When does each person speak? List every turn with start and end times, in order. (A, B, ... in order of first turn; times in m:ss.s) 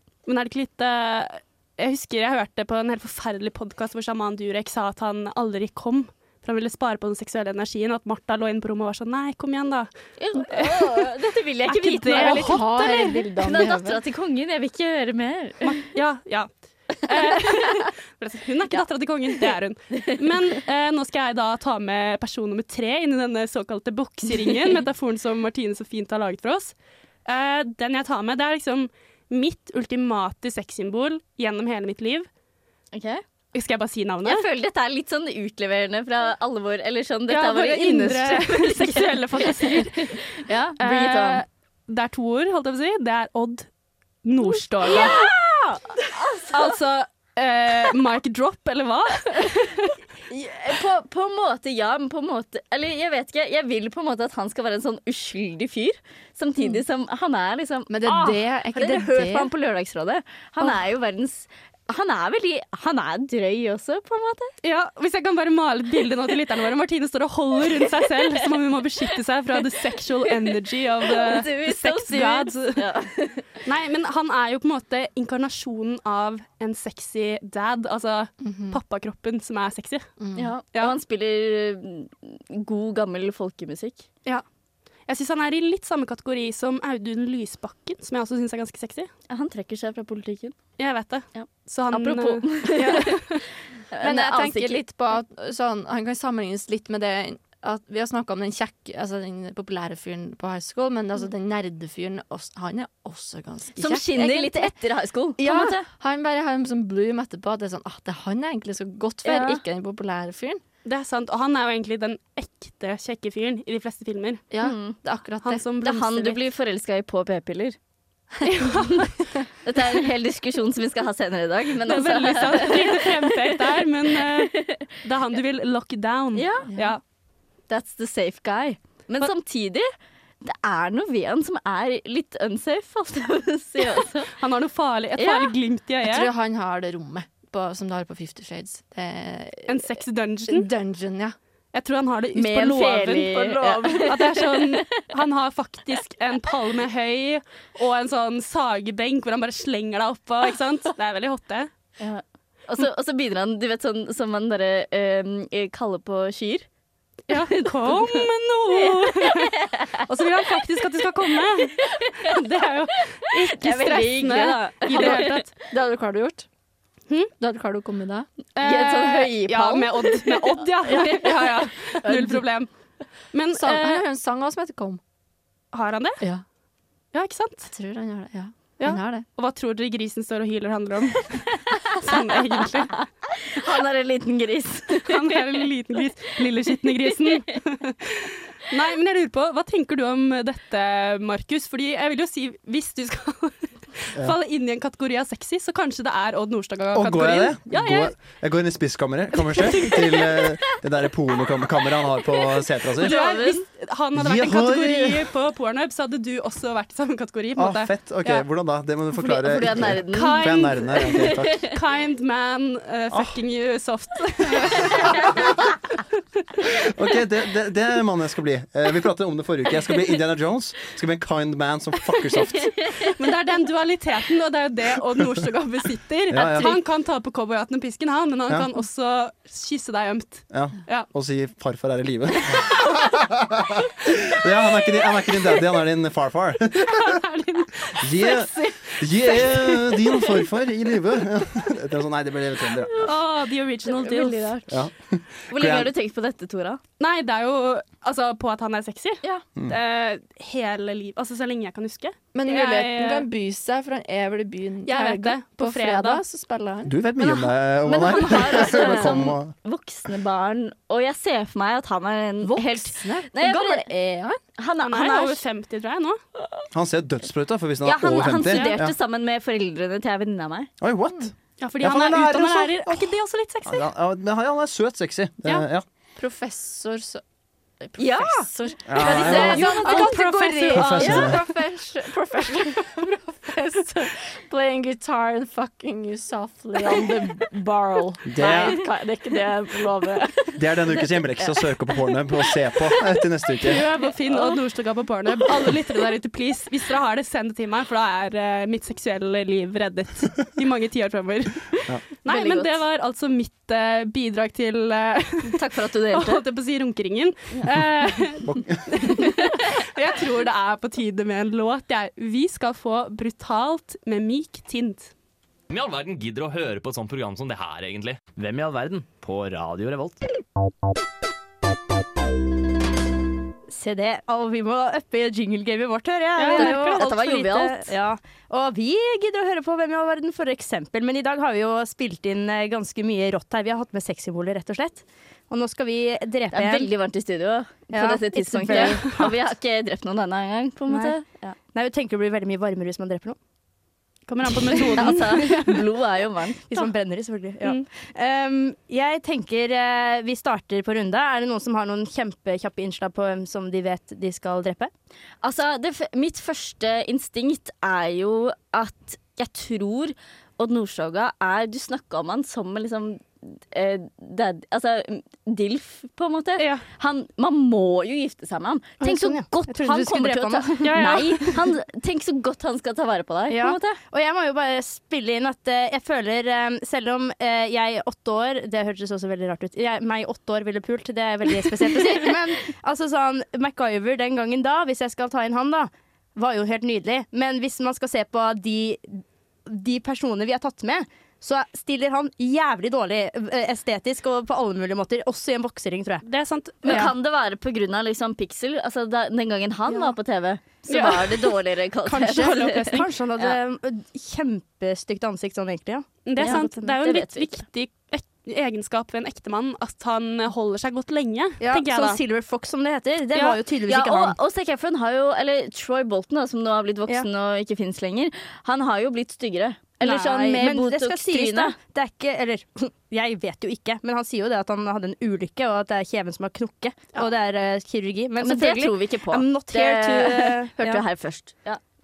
0:00.2-0:09.9 A
0:10.2-0:15.8 B
0:10.5-0:11.1 A
0:11.7-0:12.9 A
0:12.1-0:14.0 C
0:15.6-0:16.5 A
0:17.0-0:26.7 A
0:27.2-0:32.3 A
0:32.9-0:33.2 B
0:33.5-0:34.4 A
0:34.2-0:41.4 B
0:37.3-0:40.2 A
0:40.8-0:43.7 A
0:44.2-0:45.2 A
0:44.8-0:46.6 B
0:46.5-0:49.8 A
0:50.3-1:04.5 B
0:57.9-0:59.5 C
1:04.6-1:12.8 A
1:11.0-1:13.5 B
1:13.6-1:20.1 A
1:18.4-1:18.8 C
1:20.2-1:20.5 C
1:20.3-1:24.0 B
1:25.1-1:29.1 A
1:29.3-1:30.5 B
1:30.8-1:33.4 A
1:31.3-1:33.4 B
1:33.9-1:34.8 B
1:34.0-1:44.7 C
1:43.8-1:45.9 B
1:45.4-1:50.6 C
1:49.2-1:49.6 B
1:50.8-1:54.4 A
1:54.5-1:55.6 C
1:54.6-1:55.0 B
1:55.4-1:56.4 A
1:55.8-1:57.8 B
1:58.4-1:59.0 C
1:58.6-1:59.0 A
1:58.7-1:59.1 B
1:59.6-2:04.9 B
2:01.8-2:07.0 A
2:06.3-2:06.7 B
2:06.7-2:07.0 C
2:07.7-2:09.9 B
2:10.4-2:14.3 B
2:14.3-2:16.3 A
2:15.2-2:15.5 B
2:16.0-2:19.9 C
2:19.7-2:20.7 A
2:20.5-2:21.4 C
2:21.7-2:31.7 A
2:22.3-2:25.0 B
2:32.0-2:36.6 B
2:37.3-2:45.5 A
2:37.3-2:40.0 B
2:41.6-2:45.4 B
2:45.6-2:46.5 C
2:47.4-2:48.3 C
2:48.6-2:52.2 B
2:48.6-2:52.7 A
2:52.1-2:52.3 C
2:53.3-2:54.0 A
2:53.5-2:55.0 C
2:55.7-2:56.2 A
2:57.1-2:57.7 A
2:57.6-2:59.2 C
2:58.8-3:03.0 A
3:03.4-3:05.4 B
3:05.0-3:18.1 A
3:16.9-3:23.2 D
3:19.3-3:20.6 A
3:22.9-3:28.4 A
3:23.0-3:23.6 B
3:24.1-3:25.3 D
3:27.6-3:31.7 D
3:29.1-3:31.7 B
3:30.1-3:35.6 A
3:33.1-3:33.4 D
3:36.6-3:42.8 D
3:43.0-3:51.1 A
3:46.3-3:46.7 D
3:50.5-3:57.2 D
3:56.8-4:00.2 A
3:58.0-4:03.1 D
4:03.0-4:04.6 A
4:03.9-4:04.6 B
4:04.7-4:05.9 D
4:05.5-4:06.8 B
4:07.0-4:13.3 A
4:12.3-4:16.9 C
4:14.8-4:16.2 A
4:16.8-4:19.5 D
4:17.2-4:25.4 B
4:18.4-4:19.3 C
4:22.4-4:24.4 C
4:24.8-4:26.2 A
4:26.7-4:28.9 D
4:27.8-4:30.7 B
4:28.5-4:28.7 A
4:30.8-4:33.1 D
4:31.6-4:33.9 A
4:33.6-4:35.8 D
4:36.2-4:37.2 C
4:37.8-4:50.6 C
4:38.0-4:40.2 B
4:38.8-4:39.7 D
4:39.0-4:41.4 A
4:40.7-4:41.4 D
4:48.2-4:48.8 D
4:50.6-4:53.8 D
4:53.6-5:15.1 A
5:02.2-5:02.8 B
5:05.4-5:06.4 B
5:08.4-5:08.9 D
5:15.7-5:20.3 E
5:23.7-5:36.9 F
5:26.4-5:27.0 A
5:26.5-5:27.9 B
5:36.5-5:41.6 B
5:37.9-5:39.4 F
5:38.7-5:39.0 A
5:40.9-5:41.2 F
5:41.7-5:43.4 F
5:44.3-5:45.7 A
5:44.9-5:46.6 B
5:46.7-5:54.9 F
5:55.4-6:14.0 B
6:06.6-6:06.8 A
6:09.0-6:11.6 F
6:10.8-6:11.5 A
6:13.5-6:36.2 F
6:36.2-6:37.1 A
6:36.8-6:37.1 F
6:36.8-6:43.6 B
6:40.9-6:43.1 A
6:42.8-6:47.0 F
6:46.2-6:52.2 A
6:46.4-6:47.5 B
6:51.6-6:54.4 F
6:53.9-7:01.8 B
7:00.0-7:11.0 F
7:08.4-7:11.8 B